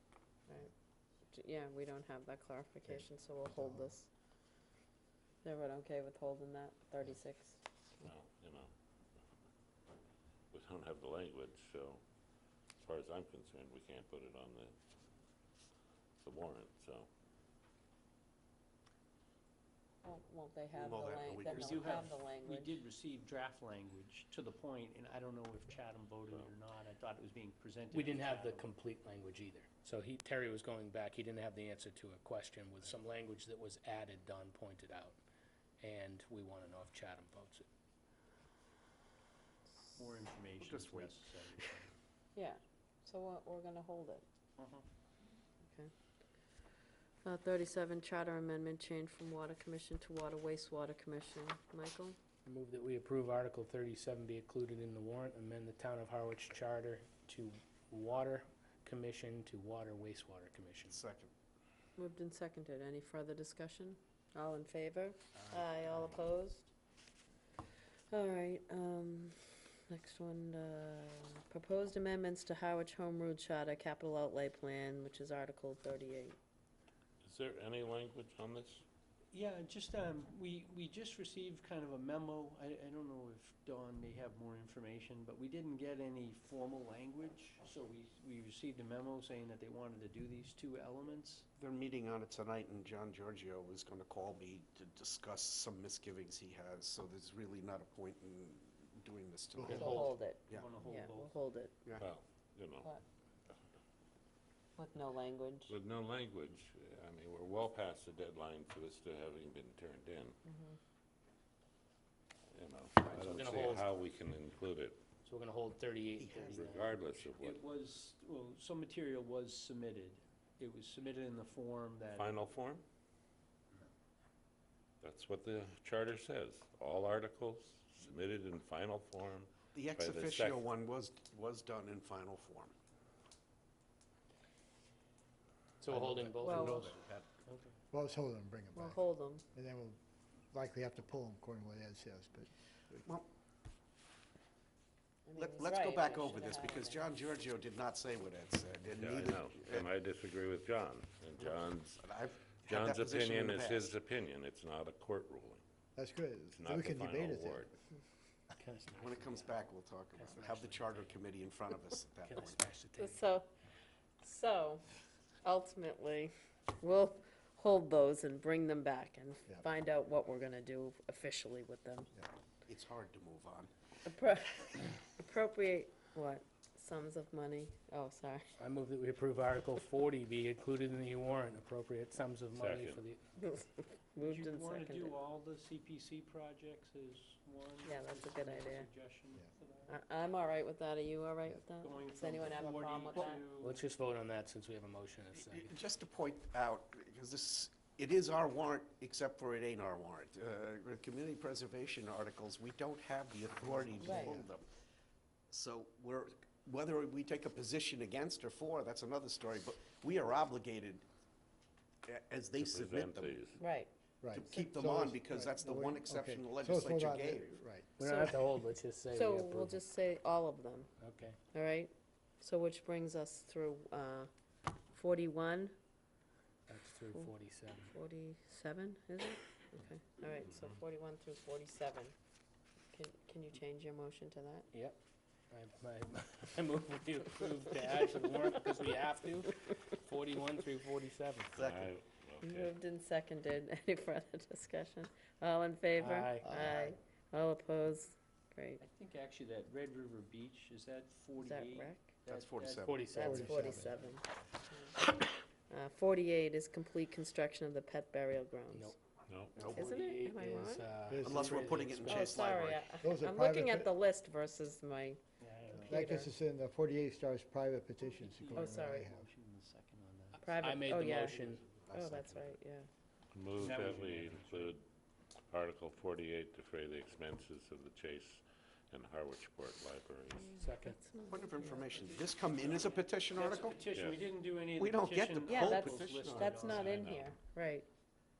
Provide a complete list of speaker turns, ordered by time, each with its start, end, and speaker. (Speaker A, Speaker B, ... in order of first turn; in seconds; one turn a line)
Speaker A: 1.3-4.1
Speaker B: 3.6-3.9
Speaker A: 5.4-7.6
Speaker C: 8.0-8.7
Speaker C: 10.5-12.0
Speaker C: 12.8-14.7
Speaker C: 16.2-17.1
Speaker A: 20.0-22.8
Speaker D: 20.7-22.1
Speaker E: 21.4-28.7
Speaker F: 27.9-35.2
Speaker F: 35.8-37.7
Speaker E: 40.0-41.9
Speaker D: 40.6-41.3
Speaker A: 42.3-44.2
Speaker E: 44.6-44.8
Speaker A: 47.2-52.2
Speaker F: 52.5-61.0
Speaker D: 60.9-61.3
Speaker A: 62.0-66.7
Speaker D: 65.4-65.8
Speaker A: 68.1-76.3
Speaker C: 77.2-78.8
Speaker E: 79.3-91.4
Speaker D: 91.6-100.7
Speaker F: 99.6-100.1
Speaker A: 99.7-101.8
Speaker E: 100.5-101.4
Speaker C: 102.0-102.9
Speaker A: 104.8-105.7
Speaker C: 105.7-110.4
Speaker A: 110.4-110.8
Speaker C: 112.5-115.0
Speaker F: 113.1-113.9
Speaker F: 115.2-117.0
Speaker D: 116.2-117.0
Speaker C: 116.5-117.6
Speaker E: 117.4-122.3
Speaker C: 122.1-122.8
Speaker C: 125.0-130.7
Speaker D: 129.7-132.7
Speaker F: 135.8-136.9
Speaker B: 135.9-136.2
Speaker D: 136.1-137.3
Speaker A: 136.4-136.8
Speaker E: 137.5-137.7
Speaker B: 137.9-140.0
Speaker A: 138.8-139.4
Speaker B: 140.5-143.0
Speaker A: 145.2-147.1
Speaker D: 145.3-149.9
Speaker C: 148.9-152.0
Speaker D: 151.4-153.9
Speaker C: 152.6-155.6
Speaker B: 155.9-157.7
Speaker C: 156.5-157.7
Speaker F: 158.5-159.6
Speaker D: 159.0-162.6
Speaker F: 160.1-161.2
Speaker F: 162.2-163.2
Speaker A: 163.0-163.4
Speaker A: 164.2-164.8
Speaker A: 165.4-172.1
Speaker D: 172.7-173.7
Speaker A: 174.0-178.5
Speaker F: 178.6-183.2
Speaker C: 182.5-183.0
Speaker A: 183.4-185.2
Speaker E: 184.2-190.0
Speaker A: 187.8-188.9
Speaker A: 189.9-193.4
Speaker E: 191.8-193.8
Speaker F: 193.6-195.7
Speaker D: 195.3-204.7
Speaker B: 203.8-204.5
Speaker A: 204.0-204.4
Speaker D: 205.5-211.0
Speaker D: 212.1-213.4
Speaker C: 212.6-213.6
Speaker A: 213.5-213.9
Speaker B: 214.2-217.9
Speaker D: 214.3-217.6
Speaker A: 218.0-218.6
Speaker F: 218.0-219.8
Speaker A: 219.1-220.9
Speaker F: 221.0-221.4
Speaker A: 221.5-224.3
Speaker A: 224.9-225.7
Speaker F: 226.7-227.9
Speaker A: 227.8-232.1
Speaker A: 232.9-234.7
Speaker F: 234.7-235.0
Speaker F: 235.5-241.6
Speaker C: 241.5-242.7
Speaker A: 242.4-248.8
Speaker F: 245.9-246.5
Speaker B: 246.4-246.9
Speaker E: 248.8-252.9
Speaker A: 251.4-252.2
Speaker D: 252.2-253.1
Speaker F: 252.8-253.8
Speaker A: 253.1-255.0
Speaker B: 253.2-254.0
Speaker A: 255.7-258.9
Speaker C: 259.3-259.7
Speaker F: 259.5-262.6
Speaker D: 259.6-259.9
Speaker A: 259.7-260.9
Speaker B: 261.1-261.6
Speaker D: 261.2-262.9
Speaker A: 262.1-265.2
Speaker B: 263.0-263.9
Speaker E: 265.4-266.1
Speaker B: 265.8-269.3
Speaker A: 265.9-266.3
Speaker A: 268.0-269.1
Speaker E: 268.3-270.9
Speaker A: 270.4-272.9
Speaker F: 270.4-271.6
Speaker D: 271.3-272.5
Speaker C: 273.3-274.8
Speaker E: 273.6-274.8
Speaker C: 275.5-280.6
Speaker A: 280.4-282.0
Speaker F: 280.6-281.0
Speaker D: 281.3-283.9
Speaker E: 282.0-282.4
Speaker C: 282.5-283.0
Speaker E: 283.3-287.1
Speaker C: 283.9-284.3
Speaker D: 284.7-286.8
Speaker A: 285.4-287.9
Speaker C: 286.8-287.3